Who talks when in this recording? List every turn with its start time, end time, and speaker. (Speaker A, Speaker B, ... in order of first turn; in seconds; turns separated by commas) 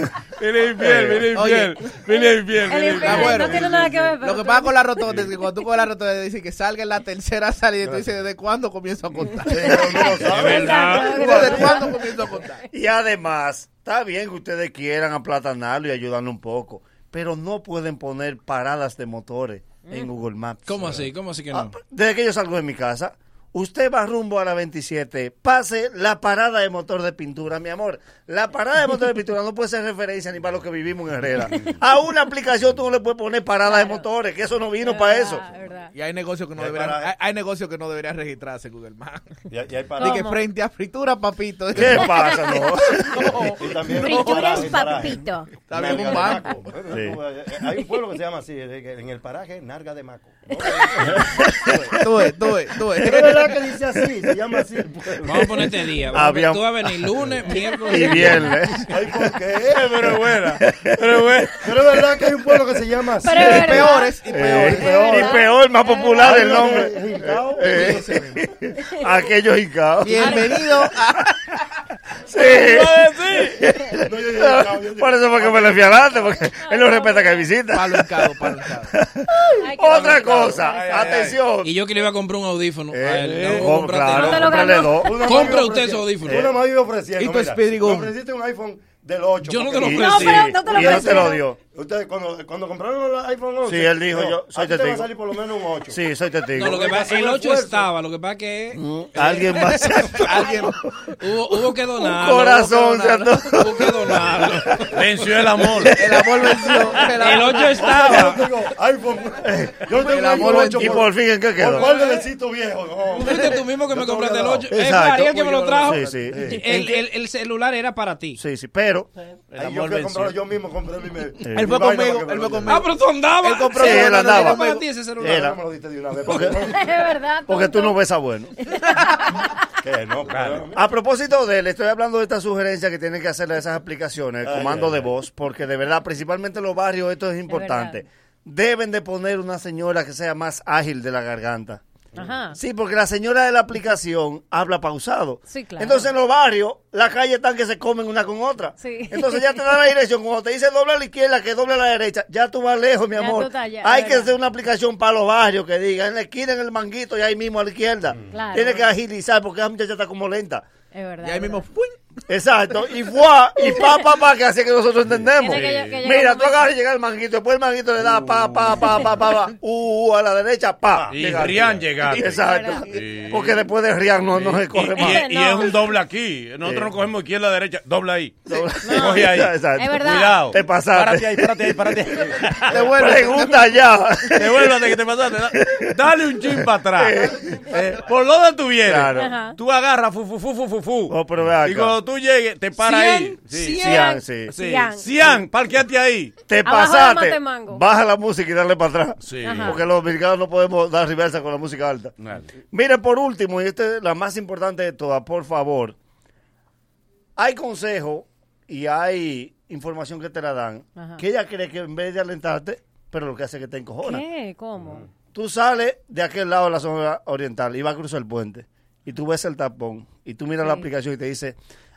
Speaker A: 0.4-3.5, Speaker B: 0.8-1.2, Speaker C: 1.3-1.9, Speaker D: 2.7-4.9, Speaker C: 3.0-10.1, Speaker E: 9.4-11.0, Speaker D: 9.7-11.9, Speaker F: 10.2-11.1, Speaker C: 10.7-12.6, Speaker B: 11.1-11.7, Speaker B: 12.7-35.4, Speaker F: 20.6-21.7, Speaker D: 33.7-34.0, Speaker D: 34.8-35.9, Speaker C: 35.9-39.4, Speaker E: 36.6-37.1, Speaker E: 39.5-40.3, Speaker D: 40.0-40.4, Speaker C: 40.0-42.4, Speaker B: 41.7-43.3, Speaker D: 42.0-42.6, Speaker C: 43.1-44.9, Speaker E: 43.5-51.3, Speaker D: 43.9-45.5, Speaker C: 45.7-46.6, Speaker B: 46.9-47.2, Speaker C: 50.7-51.1, Speaker C: 51.6-53.6, Speaker E: 53.0-55.7, Speaker F: 55.2-58.5, Speaker B: 56.1-56.7, Speaker D: 57.5-58.5, Speaker B: 57.8-58.9, Speaker E: 58.9-59.9, Speaker A: 59.7-61.6, Speaker B: 60.6-61.0, Speaker E: 61.6-63.8, Speaker D: 63.2-66.5, Speaker C: 63.3-65.3, Speaker B: 64.3-70.8, Speaker E: 66.2-68.4, Speaker C: 67.8-68.2, Speaker C: 70.0-71.3, Speaker D: 70.2-70.6, Speaker B: 72.3-81.7, Speaker A: 72.5-73.5, Speaker E: 74.0-75.9, Speaker D: 76.6-77.5, Speaker C: 77.7-79.0, Speaker D: 79.6-81.1, Speaker A: 80.5-81.4, Speaker F: 81.6-86.5, Speaker B: 82.9-85.2, Speaker A: 83.2-83.7, Speaker D: 84.1-85.1, Speaker E: 85.0-90.3, Speaker C: 87.2-88.1, Speaker F: 89.4-90.6, Speaker B: 89.8-91.6, Speaker D: 89.9-91.4, Speaker E: 91.7-96.0, Speaker B: 93.6-95.1, Speaker B: 95.9-96.8, Speaker F: 96.5-100.6, Speaker E: 96.7-97.9, Speaker B: 98.7-100.4, Speaker C: 100.1-100.8, Speaker F: 101.2-104.9, Speaker B: 102.0-104.6, Speaker A: 104.9-106.0, Speaker C: 105.9-107.9, Speaker F: 107.2-108.5, Speaker E: 107.8-114.7, Speaker B: 109.4-112.0, Speaker C: 109.9-111.0, Speaker F: 113.2-118.4, Speaker B: 114.7-116.9, Speaker E: 116.2-116.7, Speaker B: 118.3-119.1, Speaker A: 119.5-120.4, Speaker E: 119.6-122.8, Speaker C: 121.5-122.9, Speaker F: 122.7-125.5, Speaker C: 123.4-124.9, Speaker B: 123.7-124.7, Speaker E: 125.2-126.8, Speaker B: 125.2-125.6, Speaker B: 126.2-126.5, Speaker D: 126.6-128.0, Speaker B: 127.5-128.5, Speaker D: 128.7-129.2, Speaker E: 129.8-130.8, Speaker A: 130.3-130.7, Speaker B: 130.7-141.8, Speaker E: 134.4-135.1, Speaker D: 137.5-138.0, Speaker D: 142.1-142.6, Speaker B: 142.5-160.7, Speaker D: 145.5-146.1, Speaker D: 148.8-149.5, Speaker D: 153.2-154.3, Speaker D: 158.3-158.9, Speaker D: 160.9-161.6, Speaker C: 161.2-162.0, Speaker B: 162.3-175.3, Speaker D: 165.4-166.6, Speaker A: 165.5-165.9, Speaker D: 168.8-169.1, Speaker A: 171.1-173.6, Speaker E: 171.3-171.8, Speaker C: 172.0-173.5, Speaker D: 172.4-172.8, Speaker A: 174.3-182.8, Speaker D: 175.0-175.8, Speaker B: 176.6-176.9, Speaker B: 178.5-181.8, Speaker D: 178.8-180.4, Speaker C: 182.7-183.8, Speaker B: 182.7-184.8, Speaker A: 184.3-194.0, Speaker B: 185.5-185.9, Speaker B: 186.5-188.0, Speaker B: 188.8-189.3, Speaker D: 189.2-189.6, Speaker B: 191.1-192.0, Speaker F: 193.6-194.2, Speaker B: 193.7-194.5, Speaker D: 193.8-195.1, Speaker A: 194.5-196.3, Speaker B: 196.5-202.1, Speaker D: 196.6-197.8, Speaker A: 199.2-199.8, Speaker D: 199.4-199.8, Speaker A: 202.2-202.5, Speaker B: 202.7-205.9, Speaker B: 207.4-214.2, Speaker D: 210.9-211.2, Speaker D: 214.0-215.0, Speaker B: 215.3-221.6